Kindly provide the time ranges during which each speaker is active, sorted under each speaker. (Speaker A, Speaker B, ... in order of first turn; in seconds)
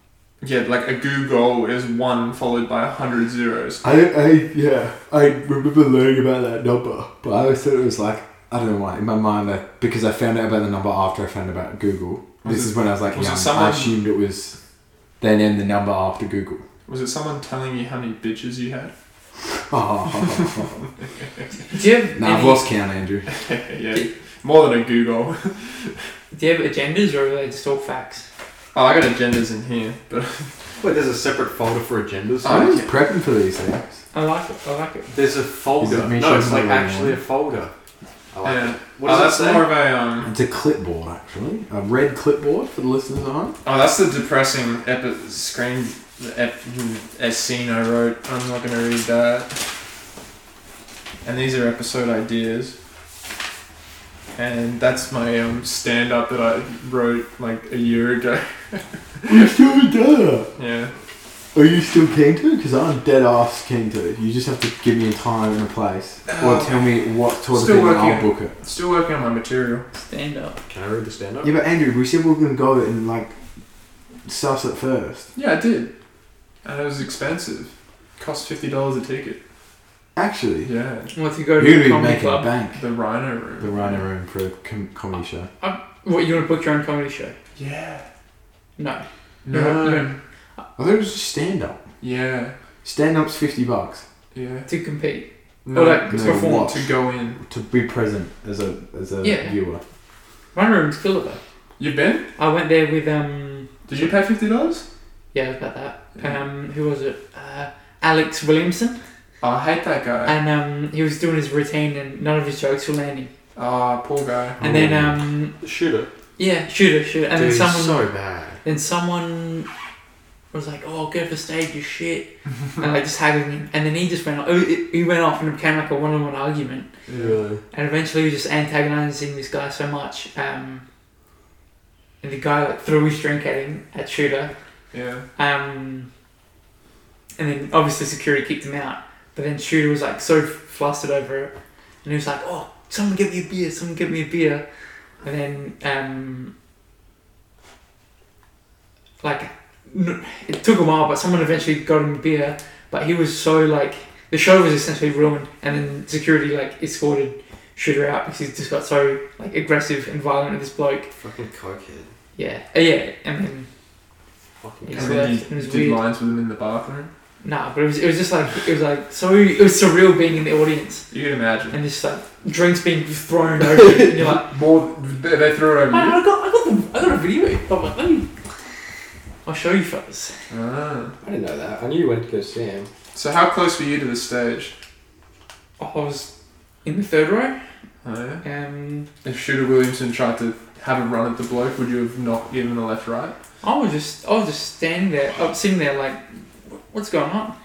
Speaker A: 0.4-3.8, 12.4-13.9, 16.9-18.9, 20.3-20.6, 23.3-25.9, 28.7-30.7, 32.4-32.9, 38.4-40.3, 43.6-49.6, 51.2-52.7, 54.4-59.6, 60.5-60.9, 66.3-66.9, 67.5-69.8, 75.3-75.9, 76.6-79.4, 80.6-81.1, 82.8-84.0, 87.5-88.0, 89.4-90.2, 92.0-92.5, 94.3-94.7, 95.6-97.4, 101.8-102.2, 103.9-104.8, 109.4-110.4, 113.5-114.6, 127.1-127.4, 134.9-135.2, 164.9-167.1, 171.1-171.8, 174.2-176.2, 180.5-181.2, 183.1-184.7, 188.0-188.4, 189.2-193.3
Speaker B: 3.8-14.6, 15.2-16.6, 19.7-20.8, 22.1-23.3, 32.5-33.9, 35.8-37.2, 40.2-43.5, 59.3-60.5, 61.5-68.5, 71.4-73.3, 74.2-75.3, 80.1-80.7, 81.6-82.8, 83.6-85.5, 90.8-91.8, 92.8-94.0, 96.1-99.8, 114.6-115.2
Speaker C: 21.7-22.6, 26.3-28.3, 34.1-35.1, 70.0-70.6, 81.1-82.5, 85.6-87.4, 88.8-90.1, 94.7-96.7, 99.2-99.5, 100.5-101.4, 102.4-103.8, 105.3-109.0, 110.2-113.3, 114.6-115.5, 116.4-118.0, 118.6-119.7, 120.5-126.9, 127.7-130.8, 132.2-134.5, 135.4-136.1, 137.4-141.5, 142.0-144.6, 145.2-146.5, 149.2-161.1, 162.3-163.7, 164.8-166.0, 167.4-171.1, 171.7-174.5, 175.9-178.3, 179.4-180.3, 185.8-186.3, 186.8-187.6, 188.4-189.1, 193.6-197.6
Speaker D: 30.8-32.8, 35.1-37.7, 38.3-39.7, 70.7-71.5, 115.6-116.1, 117.3-118.6, 127.1-127.6, 161.2-162.1, 164.6-165.3, 181.2-182.9